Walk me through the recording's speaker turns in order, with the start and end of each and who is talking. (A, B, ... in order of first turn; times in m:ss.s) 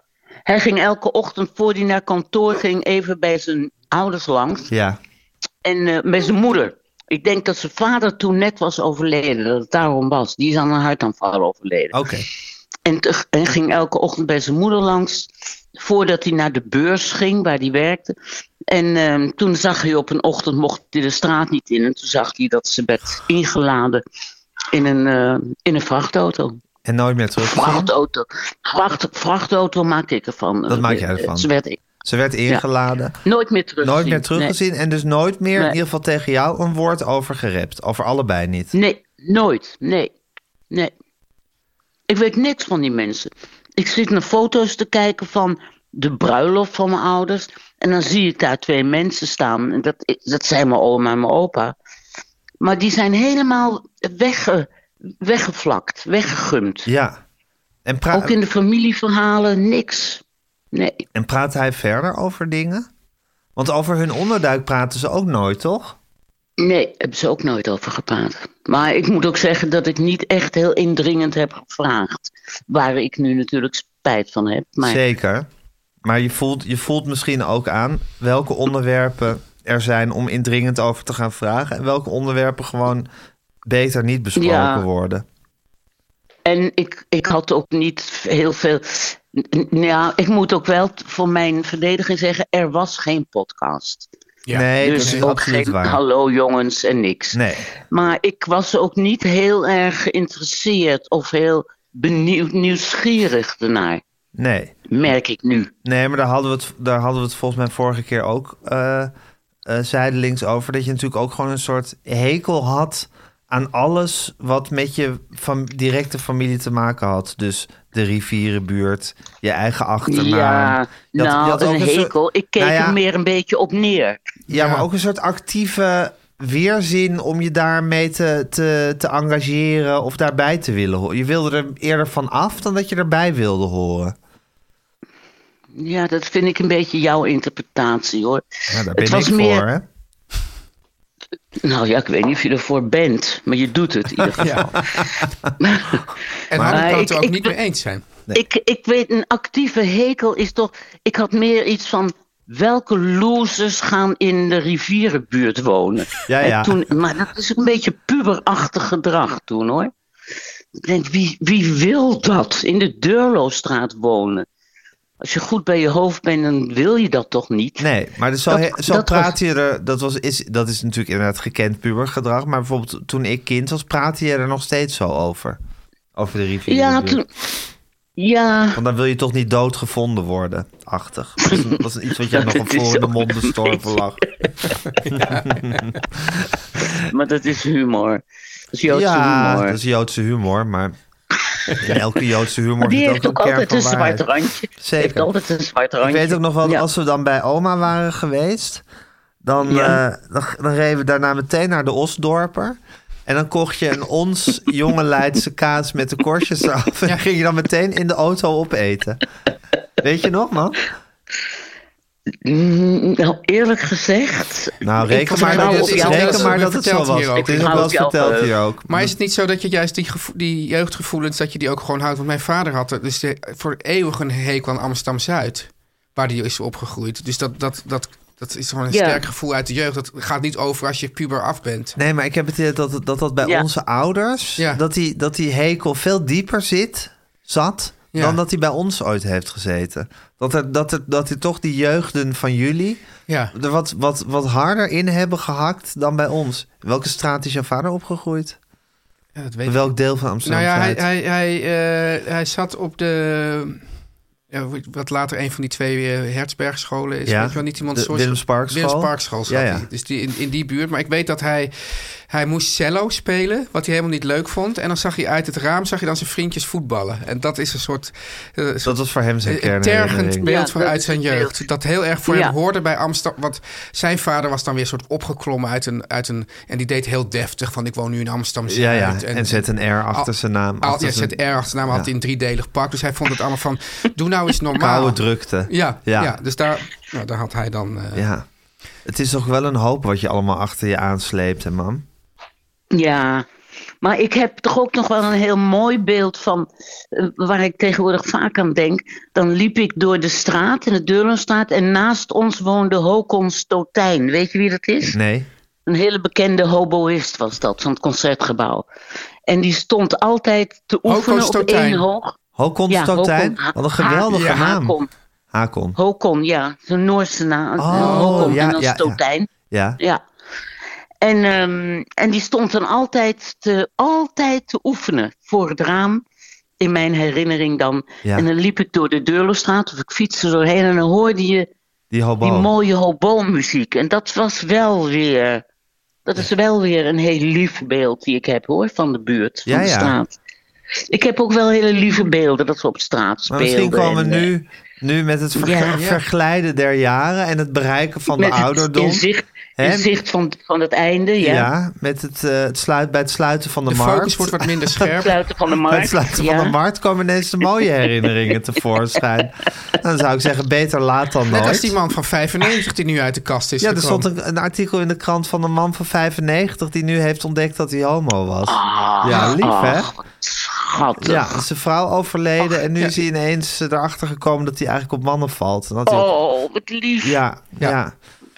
0:00.5-0:04.7 A
0:04.7-0:05.0 B
0:05.6-0:12.0 A
0:11.9-0:12.3 B
0:12.9-0:18.2 A
0:18.7-0:24.0 A
0:24.7-0:26.6 A
0:26.8-0:27.9 B
0:27.4-0:31.8 A
0:30.7-0:31.5 B
0:32.0-0:33.2 B
0:33.2-0:34.6 A
0:33.8-0:38.8 B
0:38.7-0:40.1 A
0:42.1-0:51.8 A
0:52.6-0:54.7 A
0:55.2-0:56.9 A
0:56.9-0:57.2 B
0:57.9-0:58.4 B
0:58.1-1:01.0 A
1:01.2-1:02.9 B
1:03.6-1:06.0 B
1:06.6-1:15.0 A
1:14.8-1:15.5 B
1:16.0-1:23.1 B
1:23.6-1:25.3 B
1:24.4-1:24.9 A
1:26.4-1:34.1 A
1:34.5-1:35.3 C
1:34.5-1:36.0 B
1:34.8-1:44.0 A
1:37.3-1:37.7 B
1:44.4-1:44.8 B
1:44.9-1:45.7 A
1:45.8-1:49.1 B
1:49.7-2:03.0 B
2:00.1-2:04.4 A
2:04.5-2:14.2 B
2:04.5-2:04.9 C
2:15.8-2:19.6 A
2:18.7-2:19.9 B
2:21.6-2:24.7 A
2:24.4-2:24.7 C
2:25.6-2:27.5 A
2:26.5-2:28.0 C
2:26.6-2:26.9 B
2:28.3-2:39.9 A
2:36.3-2:36.8 B
2:40.8-2:44.5 A
2:45.2-2:47.9 A
2:47.8-2:55.6 B
2:48.5-2:49.3 A
2:56.2-2:57.2 B
2:56.7-2:57.3 A
2:58.2-2:58.8 A
2:58.7-3:04.3 B
3:01.4-3:04.5 A
3:05.0-3:05.9 C
3:05.1-3:06.5 B
3:06.9-3:09.8 A
3:08.9-3:11.0 B
3:11.8-3:14.3 B
3:12.8-3:16.9 A
3:14.8-3:15.3 B
3:16.0-3:18.8 B
3:19.4-3:29.2 B
3:19.7-3:20.0 A
3:30.0-3:30.8 B
3:32.4-3:36.6 A
3:34.8-3:39.1 B
3:35.2-3:37.9 C
3:37.4-3:38.5 A
3:38.9-3:52.0 C
3:48.9-3:49.2 A
3:52.0-4:08.6 B
4:03.3-4:03.5 C
4:09.4-4:09.9 C
4:09.7-4:11.0 B
4:10.4-4:13.9 C
4:14.5-4:40.3 C
4:17.3-4:19.9 B
4:28.8-4:30.5 B
4:30.4-4:31.6 A
4:32.3-4:32.6 A
4:38.7-4:42.1 B
4:40.8-4:48.3 C
4:44.8-4:46.4 B
4:48.1-4:48.5 B
4:49.0-4:52.0 B
4:52.9-4:53.4 A
4:54.0-5:05.2 A
5:05.1-5:05.5 B
5:05.9-5:08.9 A
5:09.5-5:12.4 A
5:11.1-5:12.1 C
5:12.6-5:15.0 B
5:12.9-5:15.1 A
5:14.3-5:14.7 C
5:15.5-5:16.0 B
5:16.0-5:20.2 A
5:17.8-5:19.2 B
5:17.9-5:18.6 C
5:19.7-5:20.0 B
5:21.2-5:26.2 A
5:26.8-5:31.7 A
5:32.1-5:32.7 B
5:32.4-5:35.6 A
5:36.3-5:40.4 A
5:39.7-5:40.2 B
5:41.1-5:44.5 A
5:43.5-5:49.2 B
5:45.6-5:46.0 A
5:45.9-5:46.2 C
5:48.4-5:51.7 A
5:49.8-5:50.1 B
5:51.4-5:55.1 B
5:53.9-5:55.4 C
5:55.2-5:56.8 A
5:55.9-6:01.9 B
6:01.5-6:04.2 C
6:03.8-6:10.1 B
6:08.7-6:11.6 A
6:11.2-6:16.3 B
6:16.1-6:17.4 A
6:17.2-6:18.1 B